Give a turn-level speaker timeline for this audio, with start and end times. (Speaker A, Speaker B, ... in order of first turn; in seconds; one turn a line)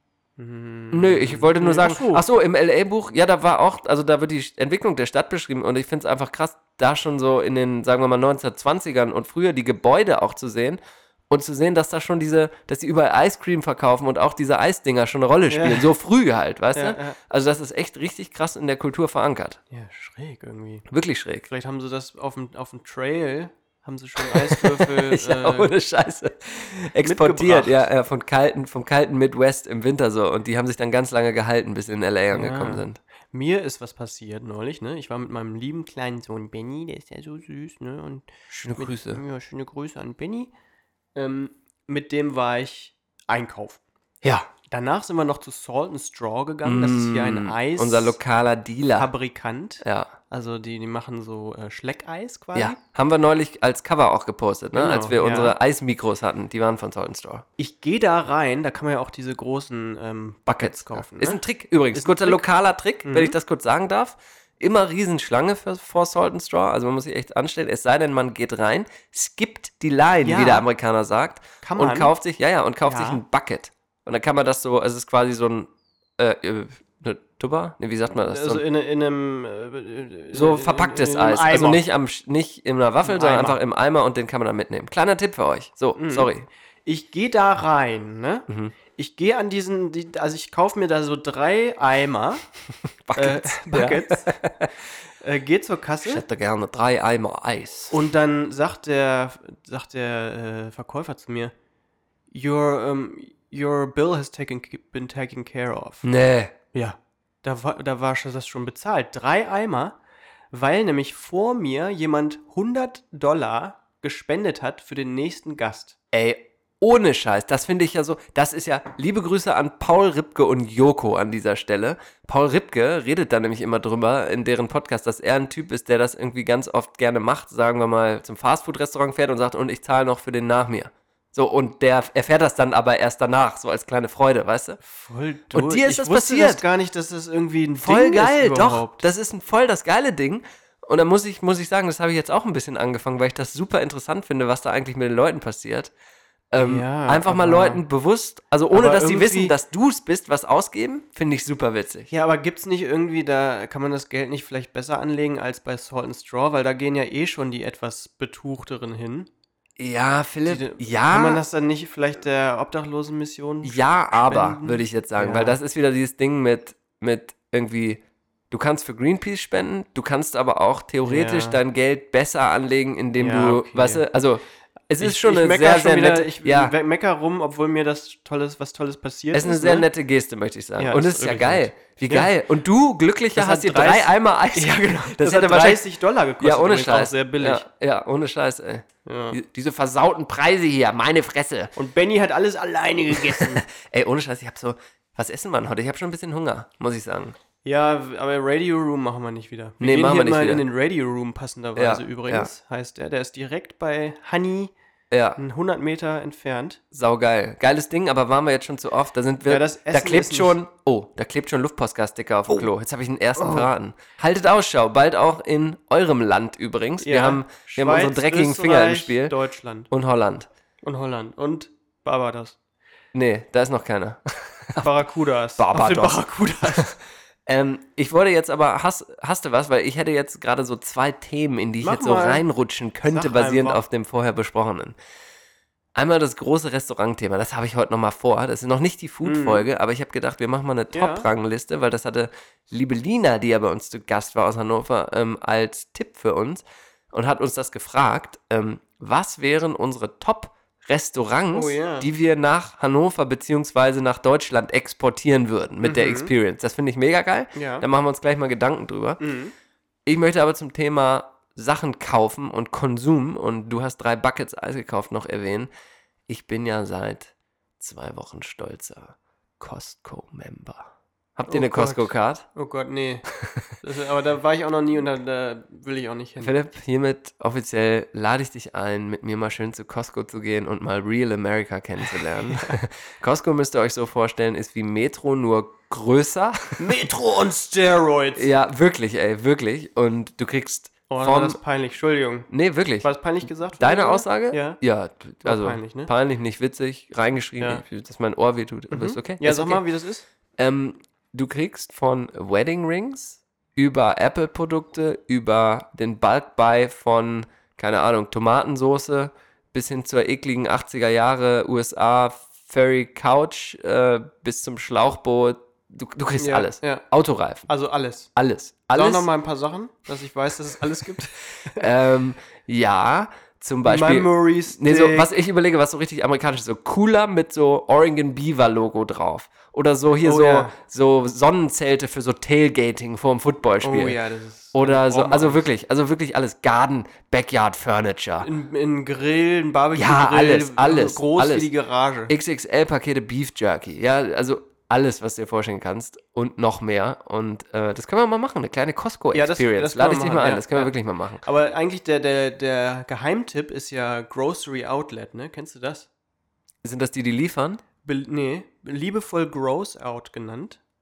Speaker A: 0.4-2.2
Speaker B: 0.9-19.6
Speaker A: 15.5-15.9
Speaker A: 16.7-17.2
Speaker A: 19.7-20.9
Speaker B: 20.9-21.5
Speaker A: 21.5-25.7
Speaker B: 24.2-33.0
Speaker A: 27.0-27.8
Speaker A: 32.3-40.5
Speaker B: 38.5-39.2
Speaker A: 41.1-43.8
Speaker B: 44.2-44.5
Speaker A: 44.6-48.2
Speaker B: 46.6-49.1
Speaker A: 49.0-52.8
Speaker B: 49.8-50.1
Speaker B: 52.5-57.5
Speaker A: 54.7-55.5
Speaker A: 57.6-61.4
Speaker B: 60.5-78.6
Speaker A: 61.9-62.4
Speaker A: 63.0-63.4
Speaker A: 70.2-70.7
Speaker A: 71.6-72.1
Speaker A: 72.8-73.2
Speaker A: 78.1-81.8
Speaker B: 80.3-86.5
Speaker A: 83.0-83.6
Speaker A: 86.0-86.3
Speaker A: 86.8-92.4
Speaker B: 88.5-88.7
Speaker B: 93.0-94.7
Speaker A: 93.2-94.3
Speaker A: 95.2-96.2
Speaker B: 96.0-98.0
Speaker A: 97.9-101.5
Speaker A: 102.3-106.1
Speaker B: 106.0-106.5
Speaker A: 106.7-110.0
Speaker A: 110.5-116.0
Speaker B: 116.1-134.8
Speaker A: 134.8-139.0
Speaker B: 135.5-136.6
Speaker B: 137.8-145.9
Speaker B: 146.5-152.1
Speaker A: 146.6-147.8
Speaker A: 148.7-149.5
Speaker A: 152.1-159.3
Speaker B: 159.8-161.4
Speaker A: 160.4-165.6
Speaker B: 163.6-176.7
Speaker A: 171.0-171.6
Speaker A: 173.2-174.0
Speaker A: 175.0-179.9
Speaker B: 179.3-185.8
Speaker A: 180.8-182.3
Speaker A: 183.3-187.7
Speaker B: 186.4-191.7
Speaker A: 189.0-189.4
Speaker A: 191.8-193.7
Speaker B: 193.1-197.3
Speaker A: 197.6-204.7
Speaker B: 199.8-200.7
Speaker B: 201.8-202.5
Speaker B: 205.1-205.4
Speaker A: 205.4-206.8
Speaker B: 206.9-219.3
Speaker A: 209.4-210.6
Speaker A: 213.4-213.7
Speaker A: 217.0-219.9
Speaker B: 219.9-220.5
Speaker A: 220.8-222.6
Speaker B: 223.1-224.9
Speaker A: 224.8-226.9
Speaker B: 225.6-226.9
Speaker B: 227.5-234.9
Speaker A: 231.8-232.4
Speaker A: 233.0-233.8
Speaker B: 235.9-259.2
Speaker A: 239.2-239.6
Speaker A: 240.9-241.3
Speaker A: 251.5-252.1
Speaker A: 255.8-256.3
Speaker A: 257.5-257.8
Speaker A: 259.2-259.5
Speaker B: 260.1-265.7
Speaker B: 266.3-272.4
Speaker A: 271.5-273.3
Speaker A: 273.8-276.5
Speaker B: 276.4-287.1
Speaker A: 282.2-282.8
Speaker A: 286.8-288.5
Speaker B: 288.3-291.6
Speaker A: 291.1-292.5
Speaker B: 292.5-293.1
Speaker A: 293.0-294.8
Speaker B: 293.8-299.8
Speaker A: 295.4-296.1
Speaker A: 298.9-300.2
Speaker B: 300.6-317.7
Speaker A: 316.4-317.0
Speaker A: 317.7-318.3
Speaker B: 318.4-319.3
Speaker A: 318.9-321.9
Speaker B: 321.6-334.2
Speaker A: 323.8-325.3
Speaker A: 330.2-330.7
Speaker A: 333.8-335.6
Speaker B: 334.7-338.5
Speaker A: 338.4-342.3
Speaker B: 339.9-341.7
Speaker B: 342.3-351.4
Speaker A: 349.3-356.1
Speaker B: 356.8-357.8
Speaker A: 358.0-360.8